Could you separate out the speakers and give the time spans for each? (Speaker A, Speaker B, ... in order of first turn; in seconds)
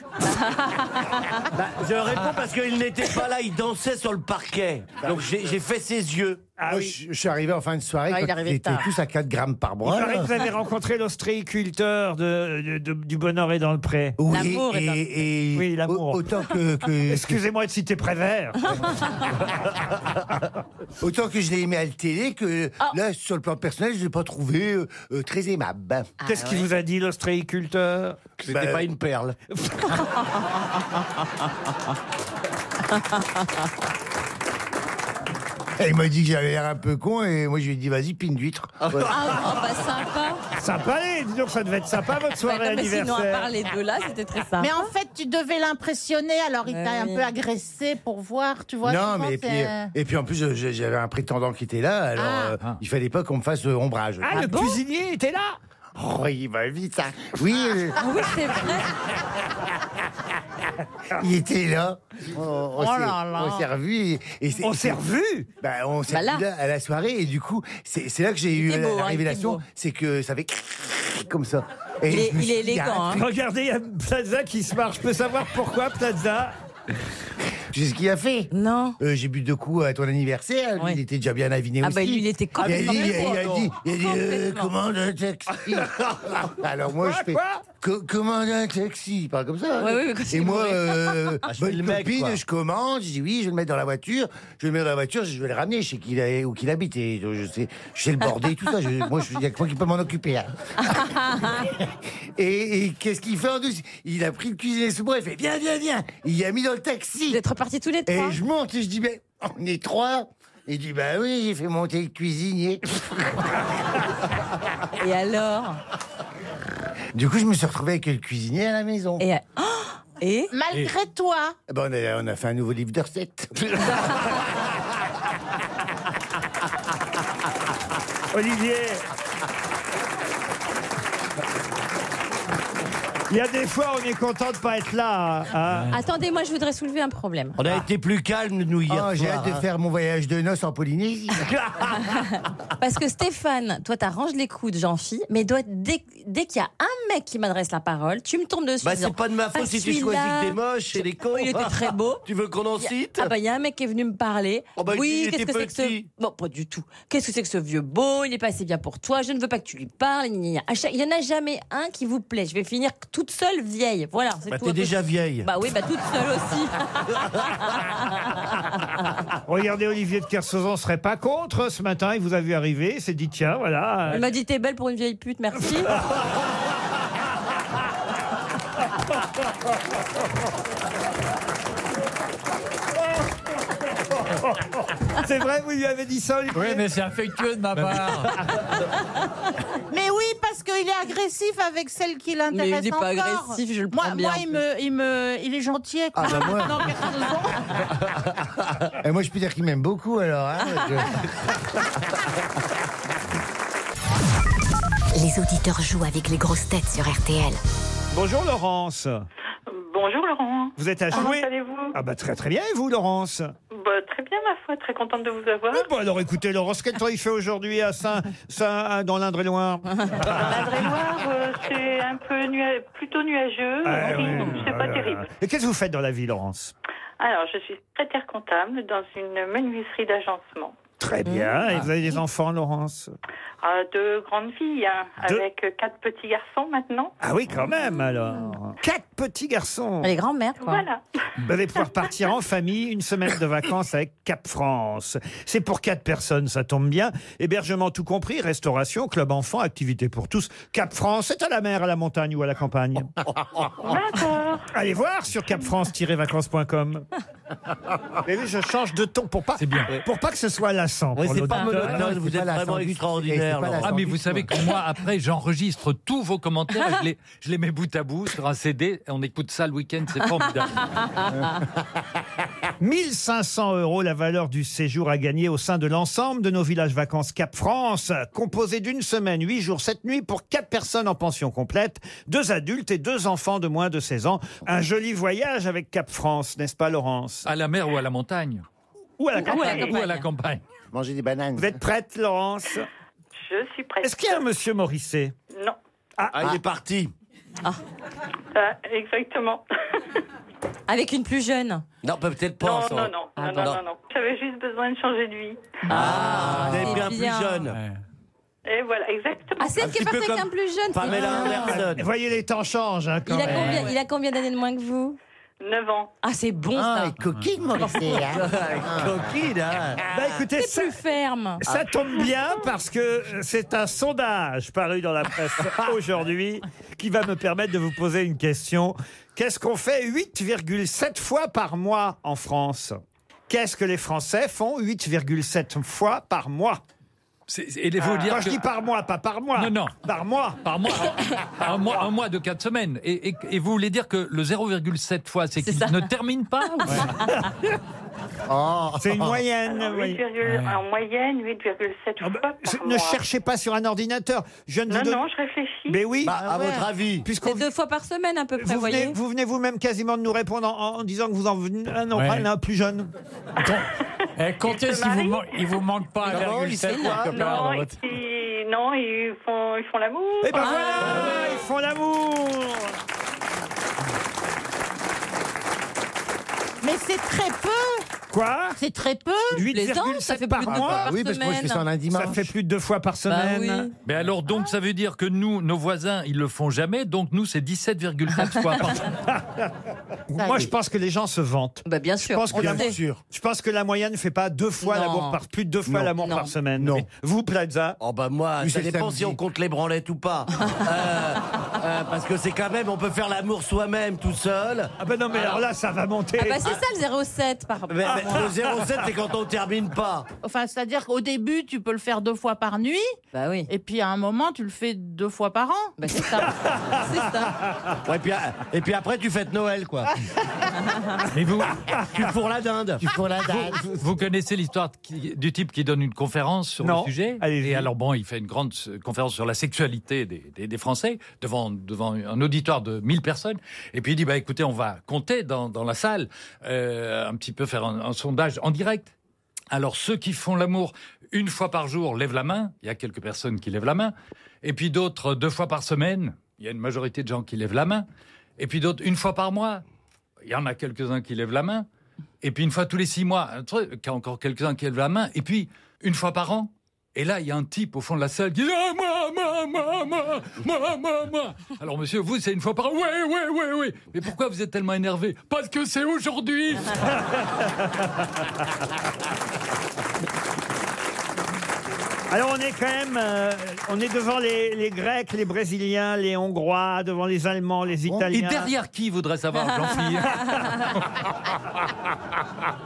Speaker A: 0.2-1.4, 8.1-8.9, 14.3-15.1, 26.2-26.7, 32.9-33.5, 39.1-40.4, 42.4-44.9, 46.7-47.3, 54.3-54.8, 58.0-58.9, 66.1-66.4, 68.6-69.6, 72.1-73.2, 78.5-79.0, 81.8-84.7, 89.8-91.4, 100.8-101.7, 107.3-108.4, 115.0-115.8, 119.2-120.5, 135.9-137.6, 142.8-152.2, 152.8-168.8, 174.1-176.0, 192.5-194.6, 196.3-196.6, 231.2-231.5, 240.0-240.8, 270.9-271.3, 289.4-290.3, 300.9-301.8, 303.4-303.8, 305.9-307.6, 309.6-311.8, 313.3-315.2, 316.2-317.1, 320.6-321.6, 345.6-346.1, 346.6-347.1, 357.4-359.2, 366.9-367.4, 370.6-371.2, 379.7-381.9, 383.3-383.9, 391.9-393.0, 394.8-395.4, 396.2-396.5, 406.4-408.4, 413.3-413.7, 416.0-417.6
Speaker B: 1.5-6.5, 28.4-29.4, 38.8-39.5, 82.6-83.8, 91.5-92.4, 137.6-139.6, 141.4-142.3, 148.8-153.3, 154.8-156.1, 164.5-165.5, 261.1-264.0, 296.4-297.1, 302.0-303.1, 305.9-307.8, 309.8-312.0, 318.2-320.1, 356.2-357.3, 366.3-367.6, 398.0-405.6, 407.9-410.3, 418.1-420.2, 422.1-423.1
Speaker C: 5.0-5.5, 6.7-10.3, 14.2-17.4, 21.0-26.1, 28.5-28.9, 35.8-39.2, 48.8-54.6, 56.0-58.0, 61.2-65.0, 65.6-73.2, 77.7-100.5, 102.4-107.4, 108.1-112.8, 117.1-119.2, 121.7-123.5, 138.9-141.4, 196.2-196.9, 199.0-201.3, 261.5-264.6, 290.9-291.8, 316.7-319.3, 348.5-349.4, 356.4-356.9, 380.7-382.5, 392.6-393.2, 396.8-397.1, 398.6-399.4, 423.0-423.9
Speaker D: 6.6-7.0, 9.8-14.2, 15.5-16.3, 17.1-18.8, 26.2-28.2, 29.6-30.0, 40.6-43.5, 54.2-55.6, 64.6-65.5, 73.1-76.5, 85.7-86.1, 87.0-87.7, 128.3-129.0, 133.3-136.0, 169.5-174.3, 185.2-186.9, 208.1-209.2, 210.8-213.5, 215.7-220.7, 223.8-226.7, 231.0-233.1, 237.2-240.1, 241.4-253.1, 254.7-257.1, 258.2-262.1, 272.8-287.5, 289.2-290.0, 291.6-292.9, 294.0-295.3, 296.2-296.6, 311.2-314.0, 320.1-321.0, 321.6-336.8, 338.0-341.1, 349.0-350.2, 352.2-355.2, 355.9-357.7, 358.6-363.1, 370.4-372.9, 378.3-378.8, 379.5-381.1, 382.1-383.9, 389.3-389.7, 390.3-398.0, 405.0-406.8, 408.1-408.6, 416.3-417.1, 426.8-427.9, 467.0-468.1, 472.3-478.7
Speaker E: 44.6-49.9, 52.2-52.6, 63.0-63.5, 120.5-121.6, 189.9-197.6, 376.8-378.1, 378.8-379.6, 390.4-390.7, 410.4-413.1, 413.7-416.0
Speaker F: 186.5-188.4, 306.4-307.0, 307.7-308.0, 350.4-350.8, 362.1-362.5, 363.6-368.0
Speaker G: 205.1-207.6
Speaker H: 209.7-212.0, 213.7-215.9, 220.3-225.3, 227.2-230.8, 233.6-237.1, 240.6-241.0, 253.8-254.7, 293.4-294.4, 298.6-299.6, 302.6-305.8, 308.7-309.8, 315.6-316.1, 349.7-353.2, 354.9-356.1, 364.6-365.5, 367.3-371.3
Speaker I: 259.6-259.9, 263.8-270.9, 287.4-288.6, 289.5-290.6, 337.5-338.6, 339.6-339.9, 340.6-347.1, 384.0-389.1, 421.3-421.8, 423.5-439.1, 439.7-448.1, 448.6-449.8, 450.4-451.9, 452.4-467.1, 478.3-481.0